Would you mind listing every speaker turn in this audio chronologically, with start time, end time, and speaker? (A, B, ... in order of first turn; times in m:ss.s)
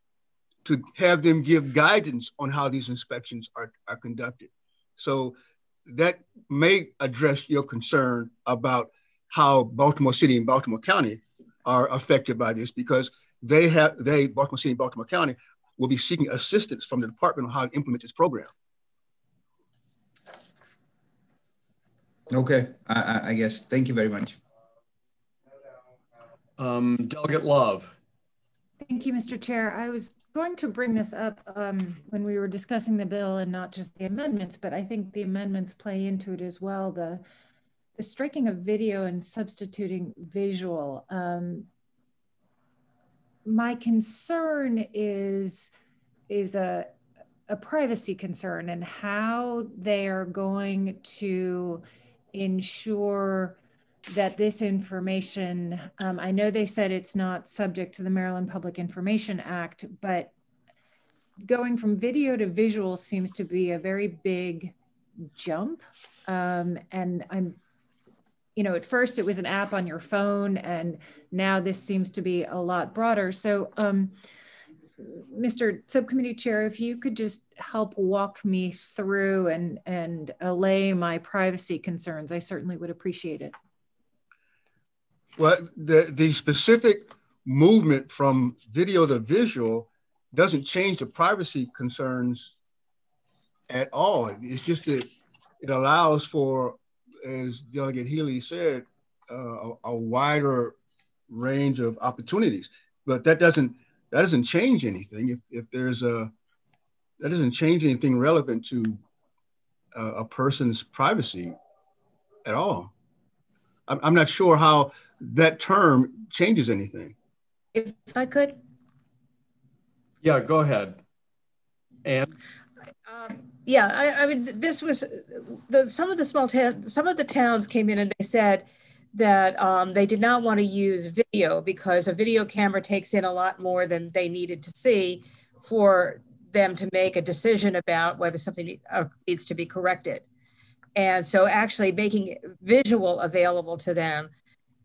0:00.6-0:05.3 A
0:05.8-0:18.5 A
0:22.3-0:24.4 B
0:26.6-0:28.0 C
0:28.8-0:37.2 D
0:38.0-0:41.7 D
0:43.4-0:45.7 D
0:46.3-0:46.9 D
0:47.5-1:00.3 D
1:01.4-1:04.7 D
1:05.2-1:07.6 D
1:08.6-1:14.1 D
1:15.0-1:23.5 D
1:25.4-1:32.5 A
1:33.7-1:35.1 A
1:35.6-1:40.8 A
1:41.3-1:46.3 A
1:47.2-1:49.0 A
1:49.9-1:51.6 A
1:52.4-1:52.9 A
1:53.9-1:57.1 A
1:57.7-1:58.6 E
2:00.2-2:01.0 C
2:02.0-2:02.3 C
2:03.1-2:20.2 E
2:21.0-2:24.3 E